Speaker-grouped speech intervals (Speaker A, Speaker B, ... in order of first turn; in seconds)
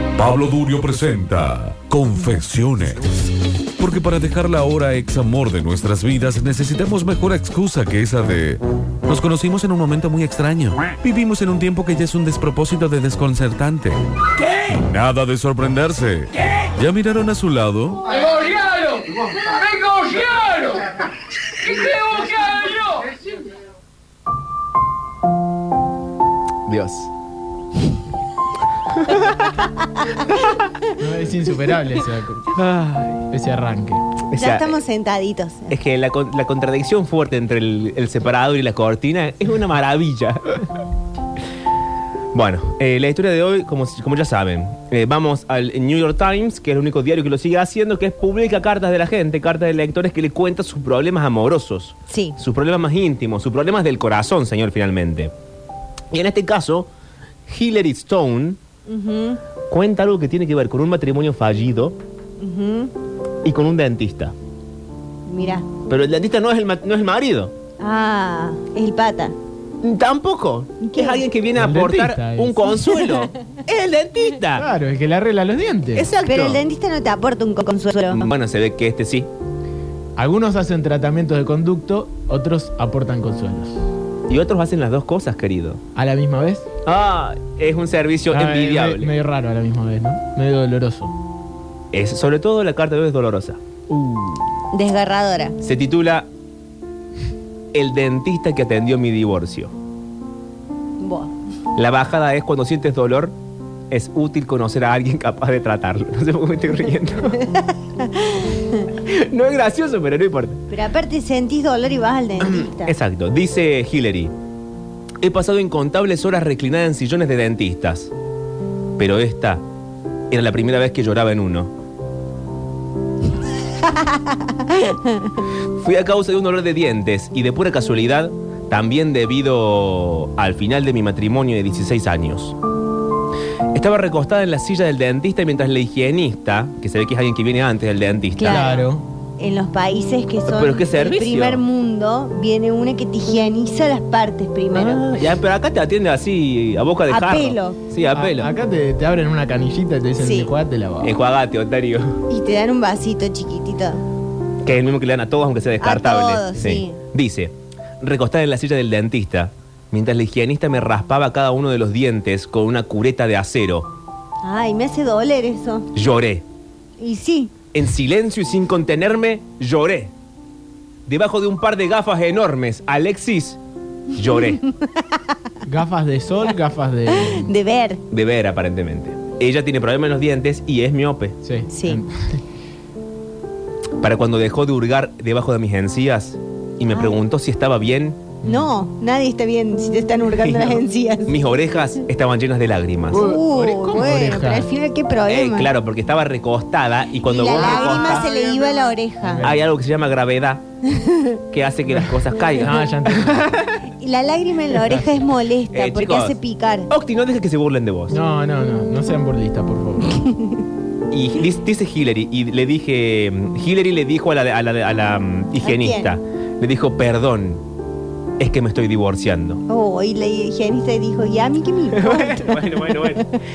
Speaker A: 0.2-14.0, 14.6-18.1
Speaker B: 18.2-20.8, 21.7-23.1
Speaker C: 26.7-27.1, 28.9-29.2, 32.5-33.3, 34.3-34.8, 35.7-40.6, 42.3-55.3, 56.1-56.9, 57.5-58.6, 59.7-62.0, 63.4-64.3, 65.8-67.5, 69.8-74.7, 75.9-76.6, 78.1-79.3, 84.3-85.8, 86.8-89.1, 91.9-93.6, 95.6-96.3, 97.7-99.7, 101.8-103.3, 103.9-107.4, 108.9-110.6, 112.4-114.3, 115.2-118.1, 119.0-119.6, 120.3-121.7, 125.8-132.6, 133.7-138.7, 140.5-141.6, 144.7-148.5, 151.0-152.2, 154.6-163.9, 165.9-166.4, 167.7-170.1, 171.1-173.6, 174.2-174.6, 178.1-181.4, 184.0-188.2, 190.4-193.3, 195.3-198.3, 199.4-200.6, 201.5-203.8, 205.7-208.2, 211.1-217.6, 218.4-219.6, 221.9-223.3
Speaker D: 29.9-30.5, 34.3-35.7, 52.1-52.4, 58.9-59.4, 62.4-62.9, 65.3-65.7, 67.8-69.3, 70.8-71.3, 72.8-73.2, 76.1-78.3, 94.7-95.6, 101.0-101.3, 107.3-108.8, 110.7-112.9, 123.8-125.4, 138.4-145.1, 147.1-147.8, 150.2-150.5, 152.3-154.0, 155.8-157.0, 164.4-165.9, 167.0-167.5, 174.3-175.2, 177.1-178.0, 181.7-182.0, 186.9-187.2, 188.4-191.4, 193.1-195.7, 197.2-199.5, 200.9-201.3, 204.0-206.9, 210.1-210.5, 215.6-216.1, 219.7-223.3
Speaker E: 31.0-32.5, 33.3-34.0, 71.5-72.7, 74.5-76.1, 80.2-83.8, 85.9-86.7, 88.3-91.1, 93.9-94.4, 138.5-139.0, 148.1-151.1, 175.6-177.5, 181.4-182.4, 188.4-188.7, 193.1-194.7, 197.5-198.7, 199.2-199.5, 201.9-203.5, 208.1-210.2